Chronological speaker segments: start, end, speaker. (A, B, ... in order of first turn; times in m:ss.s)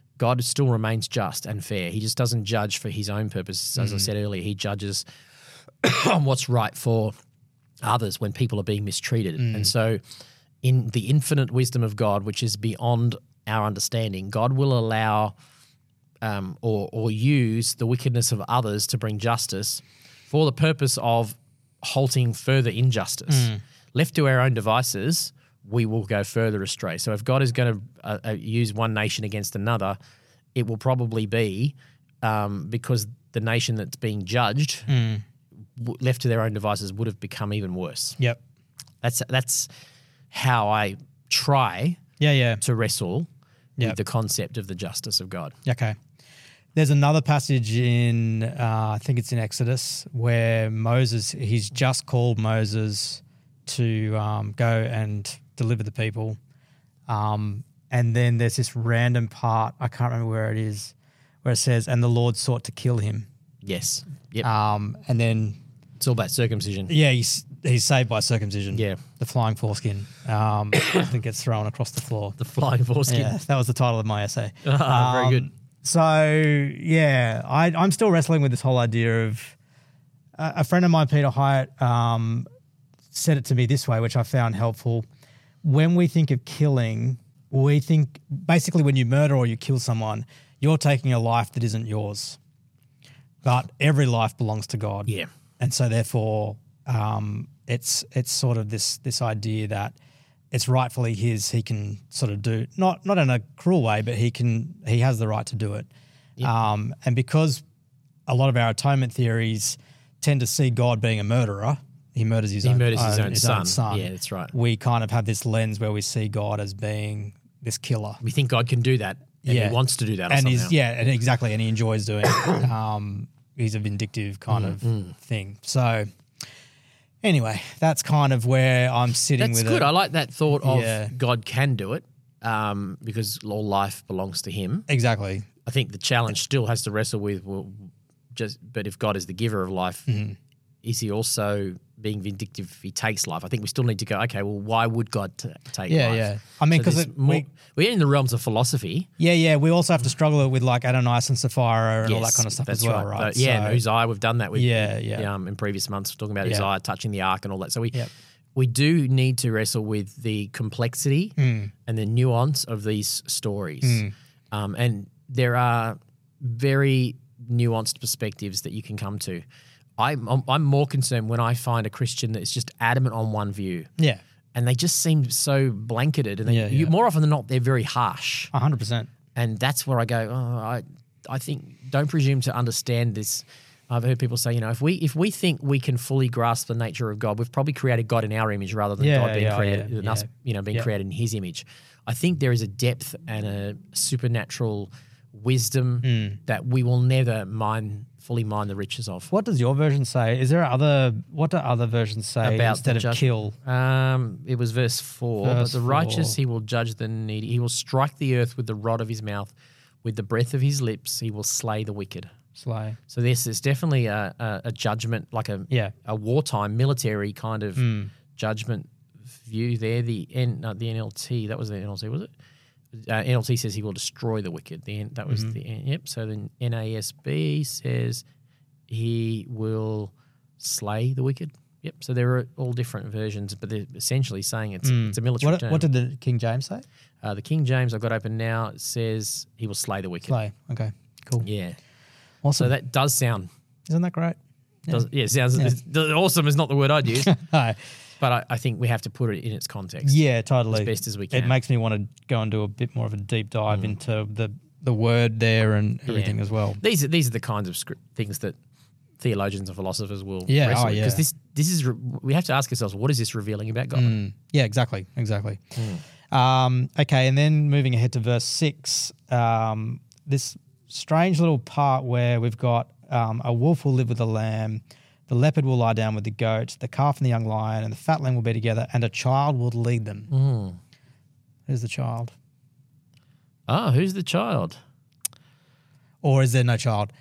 0:00.2-0:05.0 A
0:03.8-0:04.1 B
0:05.8-0:07.1 A
0:07.8-0:10.0 A
0:09.4-0:09.7 B
0:10.6-0:15.4 A
0:16.2-0:30.0 A
0:23.3-0:23.6 B
0:30.6-0:34.9 A
0:34.9-0:35.2 B
0:35.8-0:38.2 A
0:39.0-0:39.7 A
0:40.3-0:42.0 A
0:42.2-0:42.6 B
0:42.6-0:43.3 A
0:43.8-0:45.6 A
0:45.7-0:46.0 B
0:46.8-0:56.4 B
0:57.1-1:03.3 B
1:03.6-1:04.5 A
1:04.4-1:05.6 B
1:06.0-1:06.9 A
1:06.9-1:12.4 B
1:08.7-1:09.0 A
1:12.4-1:13.4 A
1:13.1-1:19.6 B
1:14.6-1:15.5 A
1:20.4-1:22.5 B
1:23.1-1:25.0 B
1:25.6-1:32.4 B
1:33.4-1:40.0 B
1:40.5-1:45.9 B
1:46.4-1:47.6 B
1:48.3-1:58.2 B
1:52.6-1:54.5 A
1:58.2-2:00.7 A
1:59.4-1:59.8 B
2:00.3-2:06.1 B
2:04.5-2:05.1 A
2:07.2-2:09.9 B
2:09.4-2:14.9 A
2:10.6-2:11.1 B
2:14.9-2:15.5 B
2:15.7-2:20.1 A
2:20.1-2:20.4 B
2:20.8-2:29.1 A
2:25.9-2:27.5 B
2:29.2-2:33.8 B
2:32.0-2:41.4 A
2:34.6-2:35.3 B
2:41.4-2:41.7 B
2:41.9-2:49.4 A
2:43.8-2:44.1 B
2:50.0-2:53.9 A
2:54.5-2:58.5 A
2:56.5-2:56.9 B
2:58.5-2:59.1 B
2:59.4-3:19.3 A
3:09.0-3:10.9 B
3:16.0-3:16.4 B
3:19.3-3:23.6 B
3:22.4-3:29.5 A
3:25.4-3:26.4 B
3:30.0-3:32.3 A
3:32.6-3:33.0 B
3:33.1-3:42.3 A
3:37.8-3:38.1 B
3:42.9-3:48.2 A
3:45.3-3:45.5 B
3:48.9-3:55.8 A
3:54.8-3:56.8 B
3:57.2-4:00.4 A
4:00.3-4:01.5 B
4:01.4-4:01.8 A
4:02.4-4:02.7 B
4:02.6-4:03.5 A
4:03.9-4:05.0 B
4:04.9-4:07.3 A
4:07.1-4:07.8 B
4:08.2-4:11.5 A
4:10.0-4:16.8 B
4:16.1-4:18.6 A
4:19.2-4:24.2 A
4:20.5-4:21.2 B
4:24.0-4:25.8 B
4:25.8-4:26.0 A
4:26.3-4:40.3 B
4:40.3-4:40.8 A
4:41.7-4:42.3 B
4:43.7-4:44.8 A
4:46.2-4:47.1 B